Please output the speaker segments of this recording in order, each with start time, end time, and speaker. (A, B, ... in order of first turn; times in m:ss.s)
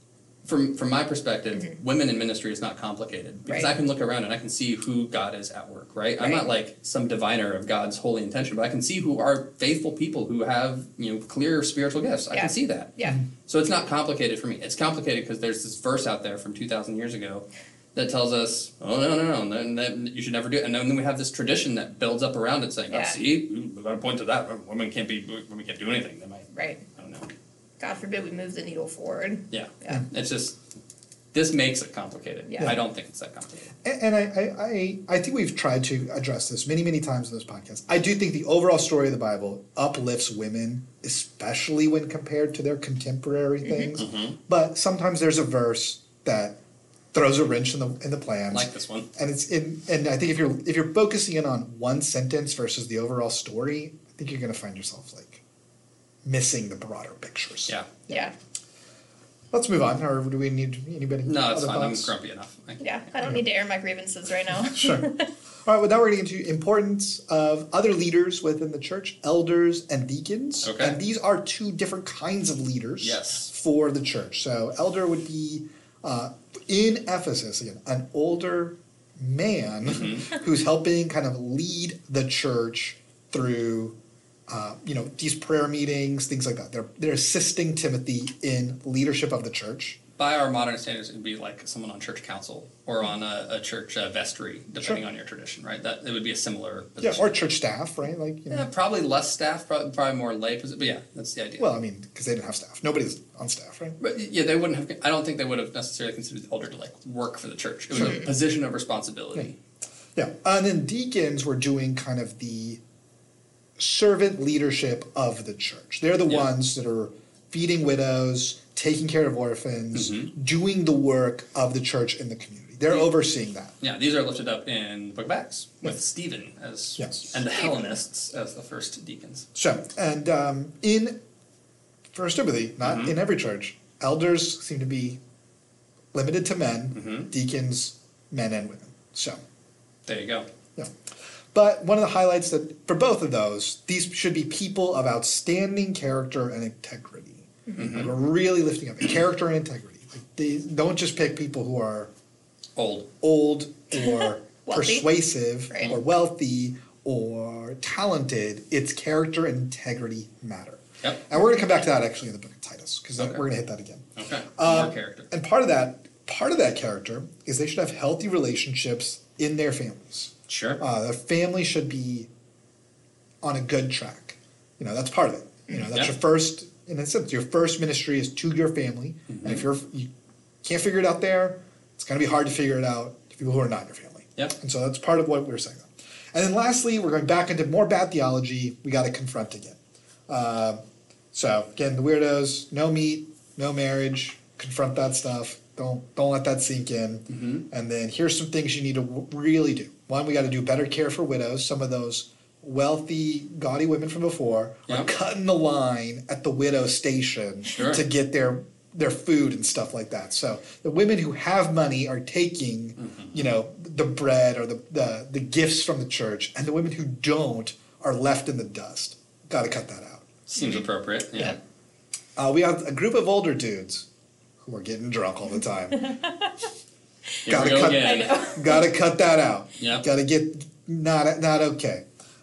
0:00.4-0:12.9 A
0:03.5-0:03.7 B
0:06.2-0:06.5 B
0:12.3-0:13.2 B
0:13.4-0:27.3 A
0:22.9-0:23.2 B
0:26.5-0:26.8 B
0:27.8-0:30.0 B
0:29.5-0:30.6 A
0:31.3-0:33.7 A
0:32.5-0:32.7 B
0:33.8-0:46.6 C
0:43.6-0:44.0 B
0:44.0-0:44.4 A
0:47.1-0:55.4 C
0:48.5-0:49.1 A
0:56.2-0:58.2 C
0:58.1-0:58.3 B
0:59.5-1:02.1 C
1:01.2-1:02.9 A
1:02.8-1:05.3 B
1:04.6-1:05.1 C
1:05.6-1:24.0 C
1:10.6-1:11.0 A
1:13.0-1:13.5 A
1:19.8-1:20.3 A
1:24.5-1:30.0 C
1:30.2-1:37.5 A
1:37.0-1:38.7 C
1:38.5-1:41.7 A
1:41.6-1:44.0 C
1:44.0-1:49.6 A
1:48.0-1:48.3 C
1:50.2-1:52.8 C
1:53.8-2:03.7 C
1:59.9-2:00.3 A
2:03.8-2:09.4 A
2:07.0-2:07.3 C
2:09.5-2:11.2 C
2:12.1-2:15.2 C
2:12.8-2:13.1 A
2:16.1-2:19.4 C
2:16.9-2:17.3 A
2:20.0-2:20.4 A
2:21.5-2:32.1 C
2:27.8-2:28.1 A
2:32.8-2:33.1 A
2:33.2-2:52.3 C
2:33.9-2:35.1 B
2:44.2-2:45.3 A
2:50.5-2:50.8 A
2:53.4-3:00.1 C
2:59.3-2:59.6 A
3:00.6-3:10.8 C
3:11.3-3:40.3 C
3:17.3-3:17.6 A
3:27.8-3:28.0 A
3:33.0-3:33.4 A
3:40.5-3:41.6 A
3:42.4-3:44.1 C
3:44.6-3:46.2 C
3:47.4-3:48.5 A
3:47.4-3:52.0 C
3:48.0-3:48.8 B
3:49.8-3:50.0 A